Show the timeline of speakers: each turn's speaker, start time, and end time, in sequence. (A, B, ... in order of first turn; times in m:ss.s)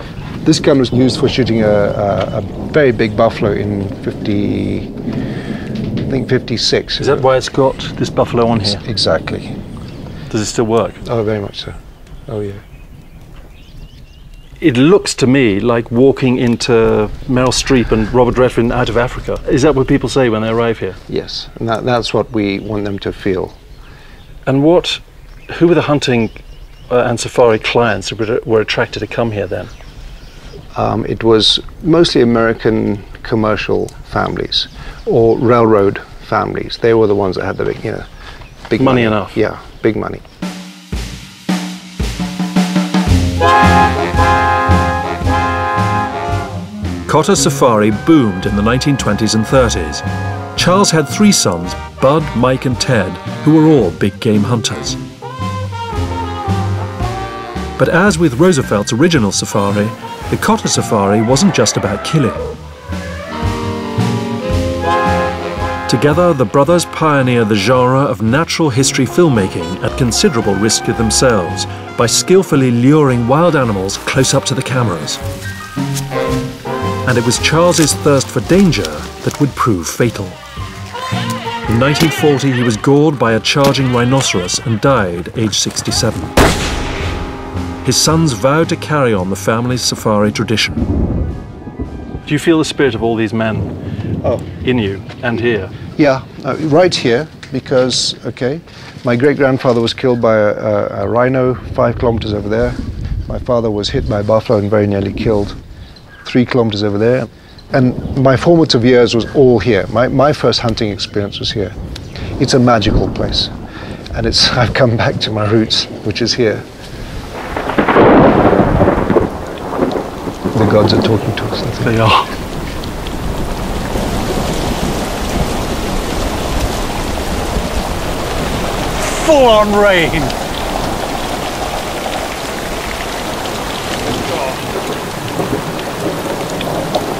0:00.4-0:04.9 A
0:06.0-0:07.2 A
0:07.0-0:08.8 B
0:08.7-0:09.6 A
0:10.3-0:11.0 B
0:11.0-0:11.8 A
0:12.3-0:12.6 A
0:14.6-0:21.0 B
0:21.1-0:23.6 A
0:24.4-0:29.7 B
0:30.7-0:38.0 A
0:38.7-0:40.2 A
0:38.8-0:39.4 B
0:47.1-0:50.0 C
0:50.6-0:55.0 C
0:57.8-1:02.4 C
1:05.9-1:15.2 C
1:17.0-1:20.4 C
1:21.7-1:26.3 C
1:27.8-1:30.8 C
1:32.2-1:33.7 B
1:34.6-1:35.7 B
1:36.0-1:45.6 A
1:46.2-1:51.7 A
1:52.4-1:53.5 A
1:54.1-1:56.6 A
2:00.5-2:01.8 A
2:01.8-2:02.3 B
2:09.0-2:10.3 B